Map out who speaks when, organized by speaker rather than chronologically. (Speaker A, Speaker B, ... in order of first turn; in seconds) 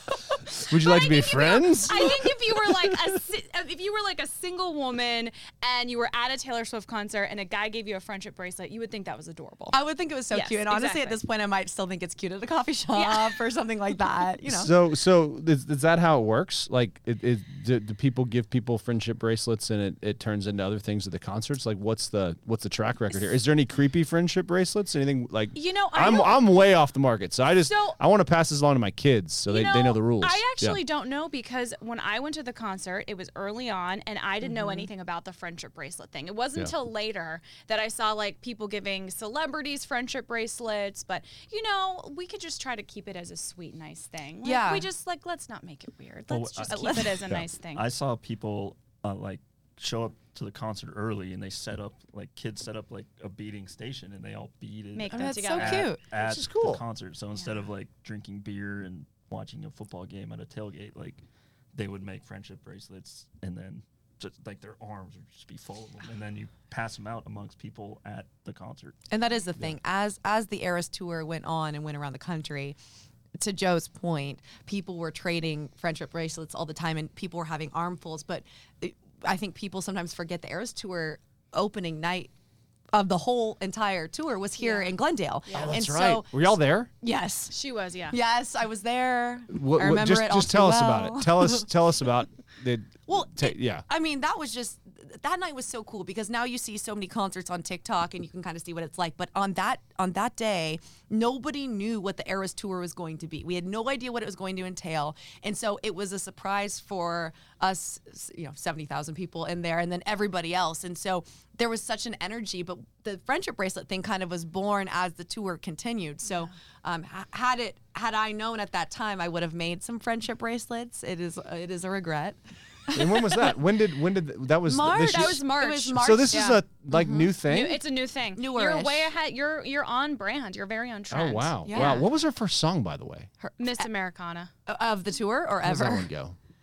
Speaker A: 0.6-9.8, 10.3-11.2, 12.9-13.4, 23.1-23.4, 25.5-26.5, 27.6-28.0, 29.5-47.8, 54.9-55.9, 84.6-85.8, 87.5-88.2, 125.0-126.6, 127.4-132.0, 133.6-134.5
Speaker B: 0.7-2.8, 14.4-30.8, 56.2-56.8, 85.5-86.9, 89.5-93.8, 122.9-127.8, 131.1-133.3, 135.6-136.3
Speaker C: 9.7-14.7, 34.4-34.9, 44.4-44.9, 46.7-47.2, 55.1-56.0, 69.1-72.8, 73.4-82.3, 82.9-87.5, 88.1-91.7, 93.1-122.4, 122.9-123.6, 124.7-127.3, 128.3-129.1, 131.7-132.1, 133.4-133.9, 134.7-136.1
Speaker D: 46.3-46.9, 47.7-61.2, 61.7-69.0